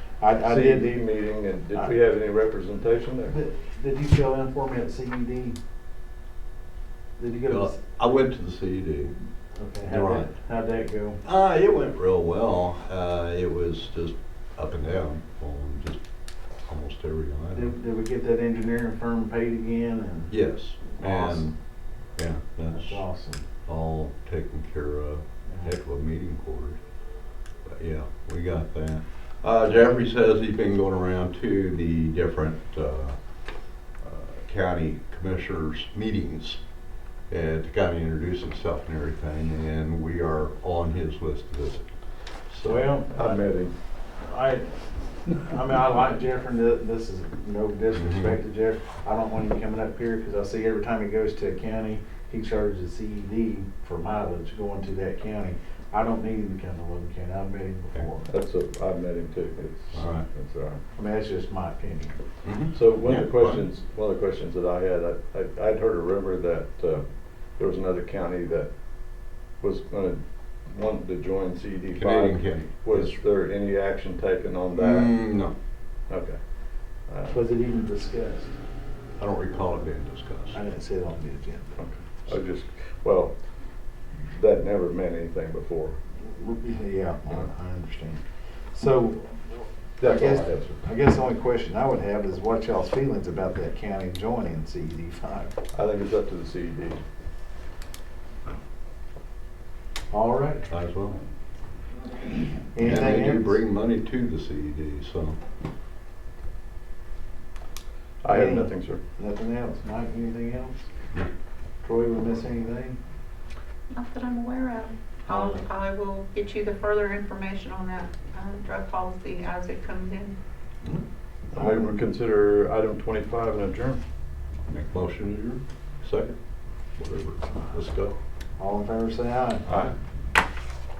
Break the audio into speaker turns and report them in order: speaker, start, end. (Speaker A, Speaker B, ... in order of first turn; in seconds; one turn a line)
Speaker A: 0.2-1.0
Speaker B: 0.4-3.4
Speaker A: 3.3-5.5
Speaker A: 7.2-7.8
Speaker C: 7.5-9.2
Speaker A: 9.6-11.2
Speaker C: 9.8-10.3
Speaker C: 11.2-16.0
Speaker C: 16.6-17.7
Speaker A: 17.5-20.3
Speaker C: 20.3-21.5
Speaker A: 20.9-21.5
Speaker C: 22.1-23.0
Speaker A: 22.7-23.4
Speaker C: 23.6-26.8
Speaker C: 27.6-36.6
Speaker C: 37.3-42.9
Speaker A: 42.6-43.5
Speaker B: 43.1-43.7
Speaker A: 44.2-58.3
Speaker C: 47.9-48.4
Speaker B: 58.3-60.8
Speaker C: 59.9-60.2
Speaker A: 61.0-62.2
Speaker C: 62.4-63.6
Speaker B: 62.7-68.7
Speaker B: 69.6-75.1
Speaker C: 72.0-73.2
Speaker C: 74.7-75.5
Speaker B: 76.1-76.4
Speaker B: 77.0-77.4
Speaker A: 77.3-78.5
Speaker C: 79.2-80.6
Speaker A: 80.5-81.8
Speaker B: 81.8-83.4
Speaker B: 84.3-86.0
Speaker A: 86.2-88.2
Speaker A: 88.7-95.5
Speaker B: 90.0-90.8
Speaker B: 95.7-97.0
Speaker A: 100.1-100.7
Speaker C: 100.7-101.2
Speaker A: 102.7-103.6
Speaker C: 102.8-105.4
Speaker B: 108.2-109.0
Speaker A: 108.3-110.9
Speaker A: 111.8-113.0
Speaker D: 113.9-120.4
Speaker B: 121.5-124.0
Speaker A: 121.5-122.0
Speaker C: 124.7-126.3
Speaker C: 127.0-128.2
Speaker A: 128.6-129.7
Speaker B: 129.7-129.9